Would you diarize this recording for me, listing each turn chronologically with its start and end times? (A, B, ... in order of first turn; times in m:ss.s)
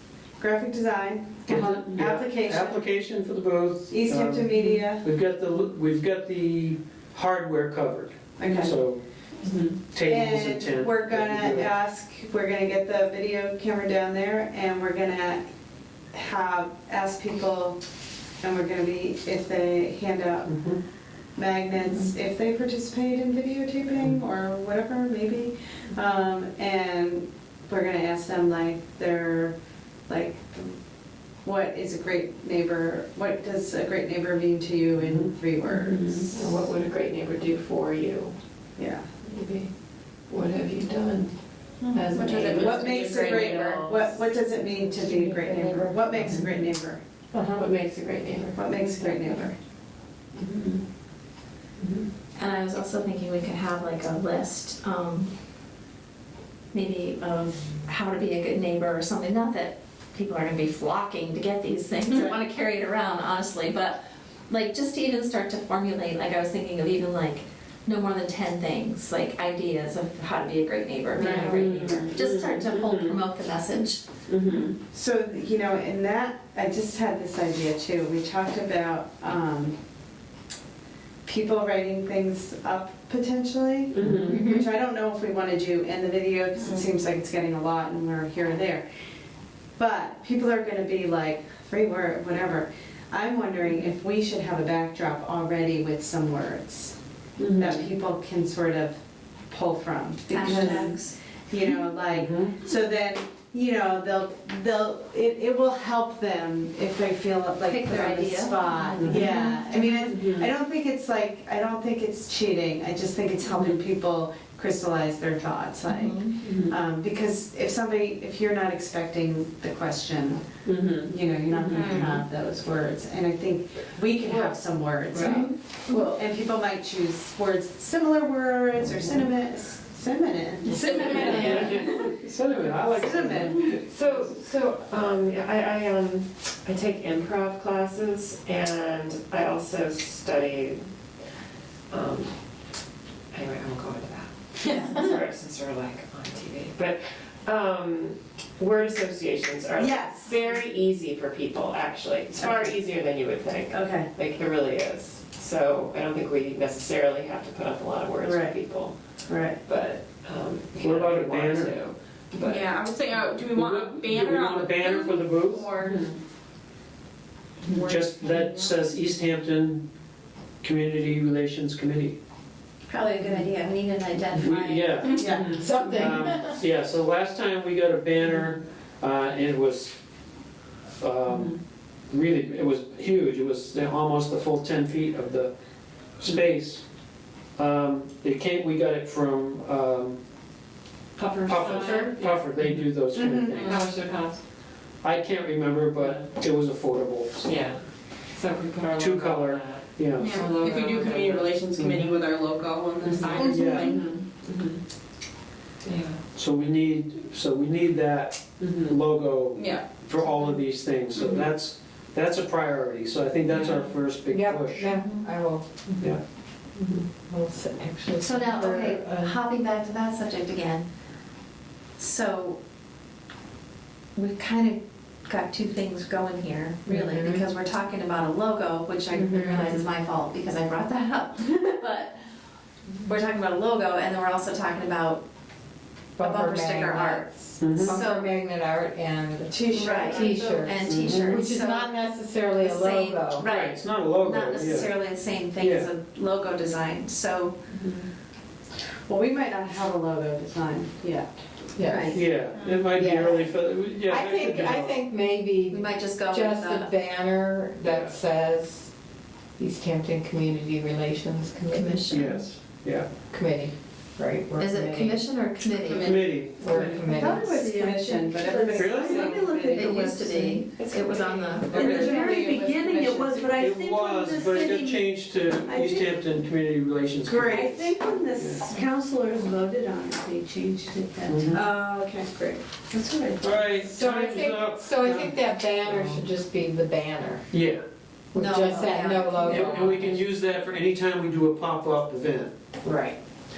0:00.4-0:02.8 A
0:01.5-0:09.0 B
0:03.9-0:05.1 A
0:08.4-0:08.8 A
0:09.4-0:09.7 C
0:09.9-0:11.7 B
0:10.0-0:15.4 A
0:16.1-0:17.8 A
0:18.4-0:20.5 A
0:20.5-0:20.8 B
0:21.4-0:29.5 A
0:30.1-0:30.8 A
0:31.4-0:36.4 A
0:35.0-0:35.3 B
0:35.7-0:38.3 C
0:38.8-0:39.0 A
0:39.2-0:39.7 C
0:40.3-0:41.3 C
0:41.9-0:43.6 D
0:41.9-0:44.1 C
0:42.5-0:47.0 A
0:45.1-0:46.4 C
0:47.3-0:49.4 C
0:48.5-0:49.5 A
0:50.4-0:50.8 C
0:52.4-0:55.3 E
0:56.7-1:14.0 E
1:11.1-1:13.2 C
1:14.3-1:14.7 C
1:14.9-1:19.8 A
1:21.2-1:28.8 A
1:24.0-1:24.5 C
1:24.0-1:24.4 B
1:29.8-1:41.0 A
1:37.4-1:37.8 B
1:40.3-1:41.2 E
1:41.5-2:00.4 A
1:42.1-1:42.5 B
1:47.6-1:49.6 E
1:49.0-1:49.3 B
1:50.1-1:50.5 B
1:55.9-1:56.3 E
1:56.4-1:56.7 C
2:00.6-2:01.1 C
2:01.0-2:12.1 A
2:01.7-2:02.0 E
2:05.2-2:06.1 E
2:10.8-2:11.7 D
2:11.2-2:14.4 B
2:12.9-2:13.7 A
2:13.8-2:20.8 C
2:21.9-2:22.3 C
2:23.3-2:39.0 C
2:29.8-2:30.6 A
2:32.4-2:32.8 A
2:33.7-2:34.1 A
2:38.2-2:38.6 A
2:39.3-2:39.6 A
2:39.6-2:42.8 C
2:40.7-2:41.7 B
2:42.4-2:46.1 D
2:43.5-2:45.7 B
2:45.8-2:46.1 C
2:47.7-2:48.7 D
2:47.8-2:49.8 B
2:50.6-2:52.2 B
2:52.9-2:55.2 E
2:54.3-3:00.0 B
2:55.1-2:55.6 A
2:55.5-2:56.6 F
3:01.0-3:01.6 B
3:02.1-3:05.5 B
3:06.2-3:06.8 B
3:07.6-3:10.2 B
3:11.4-3:12.1 C
3:11.4-3:13.8 B
3:11.6-3:12.2 F
3:13.1-3:13.6 A
3:13.5-3:13.9 D
3:13.7-3:14.0 C
3:15.0-3:17.5 B
3:16.0-3:16.2 C
3:17.4-3:17.8 C
3:18.4-3:19.8 C
3:18.9-3:20.4 B
3:20.2-3:24.2 D
3:20.5-3:21.0 C
3:21.7-3:22.2 B
3:23.0-3:24.0 B
3:23.2-3:24.8 C
3:25.8-3:26.2 C
3:26.3-3:34.9 B
3:28.6-3:28.9 C
3:29.5-3:29.9 D
3:34.3-3:35.8 F
3:37.2-3:39.4 F
3:38.2-3:40.9 E
3:42.0-3:42.6 E
3:44.1-3:52.2 E
3:46.9-3:47.4 F
3:49.1-3:49.8 F
3:53.0-3:55.2 E
3:56.2-4:03.4 F
3:56.2-3:58.3 E
3:57.6-3:57.9 B
3:59.5-4:00.8 A
3:59.7-4:02.0 E
4:00.8-4:01.3 B
4:02.6-4:07.6 E
4:03.4-4:04.9 B
4:05.6-4:05.9 B
4:09.1-4:11.3 A
4:11.8-4:12.2 F
4:11.8-4:12.2 E
4:12.1-4:15.0 B
4:12.8-4:13.5 F
4:14.1-4:18.9 F
4:15.7-4:16.9 E
4:17.8-4:18.1 B
4:19.6-4:22.0 F
4:21.7-4:22.4 E
4:22.1-4:23.1 B
4:23.3-4:25.2 F
4:24.6-4:26.2 E
4:25.7-4:30.6 D
4:26.0-4:26.8 B
4:26.6-4:27.6 F
4:27.1-4:30.1 A
4:28.7-4:29.2 B
4:29.6-4:32.3 E
4:30.8-4:33.6 A
4:31.7-4:35.0 D
4:33.5-4:38.7 B
4:35.6-4:36.1 A
4:37.2-4:41.8 A
4:41.3-4:41.6 B
4:41.5-4:42.6 D
4:43.4-4:46.2 B
4:43.8-4:47.5 F
4:47.5-4:47.8 B
4:48.3-4:49.9 F
4:48.3-4:50.1 E
4:49.5-4:52.5 B
4:52.8-4:53.2 F